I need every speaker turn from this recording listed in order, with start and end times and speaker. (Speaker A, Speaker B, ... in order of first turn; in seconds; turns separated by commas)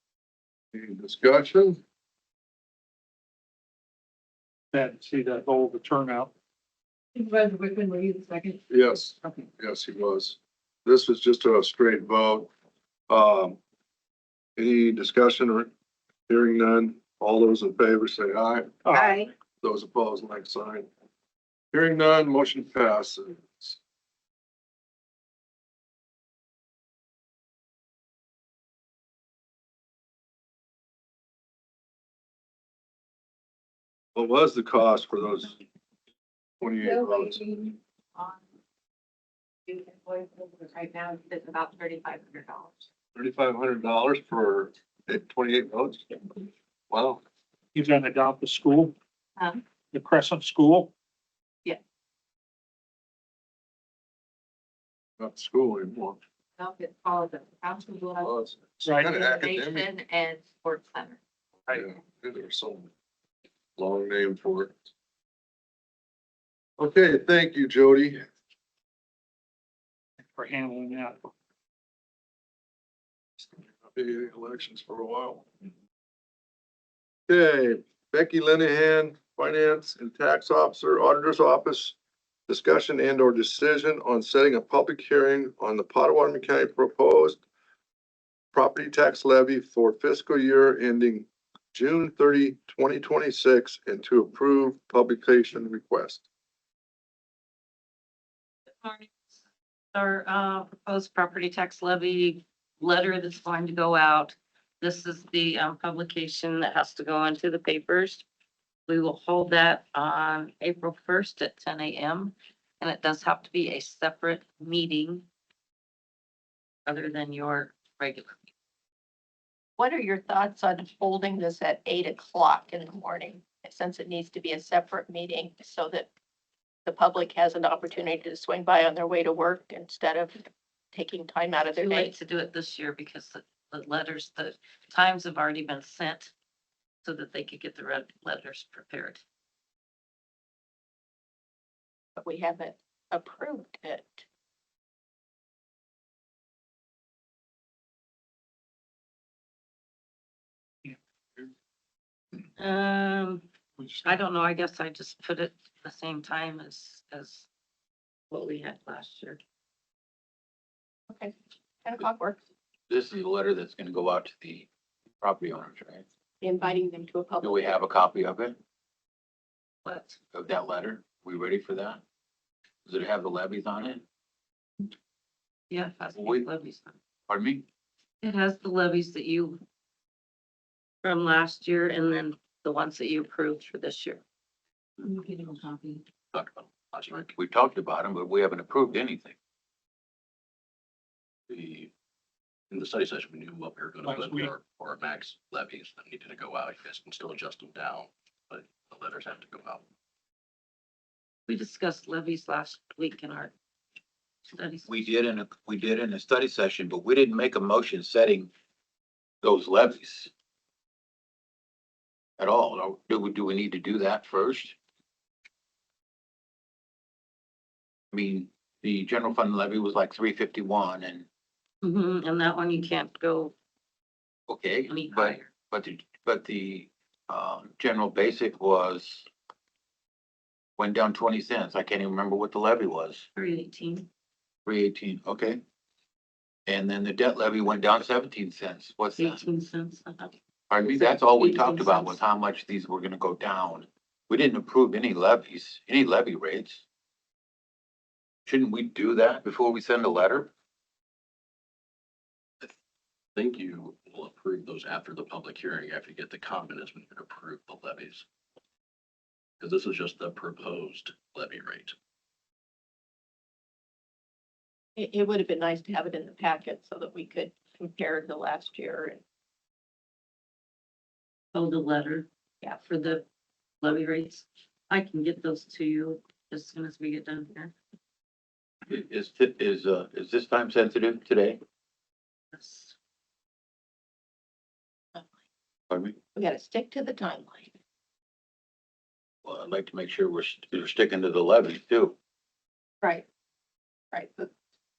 Speaker A: 0.7-1.8, Speaker B: 4.7-6.3, Speaker C: 7.2-8.6, Speaker A: 8.7-12.5, Speaker A: 13.1-13.6, Speaker A: 14.6-15.7, Speaker A: 16.3-18.8, Speaker B: 18.9-19.1, Speaker A: 19.6-20.9, Speaker A: 21.7-23.8, Speaker A: 34.1-35.6, Speaker A: 36.6-37.4, Speaker C: 36.8-38.4, Speaker C: 39.7-42.9, Speaker A: 43.1-46.2, Speaker A: 46.9-47.2, Speaker B: 47.7-49.0, Speaker B: 49.9-50.9, Speaker A: 55.2-56.2, Speaker C: 56.6-58.3, Speaker A: 58.2-59.9, Speaker B: 58.8-59.1, Speaker C: 59.1-61.2, Speaker A: 61.7-62.9, Speaker A: 63.8-64.8, Speaker A: 66.8-68.3, Speaker B: 70.3-71.3, Speaker A: 73.6-75.5, Speaker A: 77.3-82.0, Speaker A: 82.5-87.4, Speaker A: 88.5-96.2, Speaker D: 98.8-99.2, Speaker D: 99.9-108.2, Speaker D: 108.9-115.3, Speaker D: 116.9-118.4, Speaker E: 119.8-126.1, Speaker E: 126.9-132.2, Speaker D: 131.7-136.3, Speaker D: 137.0-139.2, Speaker E: 142.2-144.2, Speaker D: 152.6-157.5, Speaker D: 158.3-159.4, Speaker E: 161.1-162.4, Speaker F: 162.9-164.7, Speaker F: 165.2-166.1, Speaker E: 166.4-167.8, Speaker F: 167.4-168.6, Speaker D: 169.8-170.2, Speaker F: 170.3-172.0, Speaker F: 172.9-174.0, Speaker D: 175.7-177.0, Speaker F: 176.2-176.5, Speaker F: 177.3-177.7, Speaker D: 178.2-179.6, Speaker D: 181.0-184.2, Speaker C: 185.2-185.6, Speaker G: 186.3-187.3, Speaker F: 187.3-189.3, Speaker G: 191.5-191.9, Speaker G: 192.7-199.8, Speaker B: 194.1-194.5, Speaker D: 201.5-203.5, Speaker D: 204.5-205.1, Speaker F: 204.9-208.5, Speaker F: 209.4-210.3, Speaker F: 212.4-214.8, Speaker F: 218.1-221.3, Speaker D: 221.8-223.5, Speaker F: 224.5-229.3, Speaker D: 224.9-225.5, Speaker F: 230.8-233.3, Speaker D: 233.3-234.1, Speaker F: 234.7-235.6, Speaker F: 236.7-239.4, Speaker D: 239.2-240.3, Speaker F: 240.7-246.8, Speaker D: 240.9-242.2, Speaker F: 248.5-250.5, Speaker G: 253.4-258.2, Speaker G: 259.6-261.9, Speaker E: 265.0-269.2, Speaker D: 271.5-272.3, Speaker D: 272.8-273.2, Speaker D: 273.8-277.7, Speaker F: 278.9-281.6, Speaker D: 282.5-282.9, Speaker F: 285.9-286.2, Speaker E: 286.4-287.7, Speaker F: 289.4-292.1, Speaker E: 294.1-294.5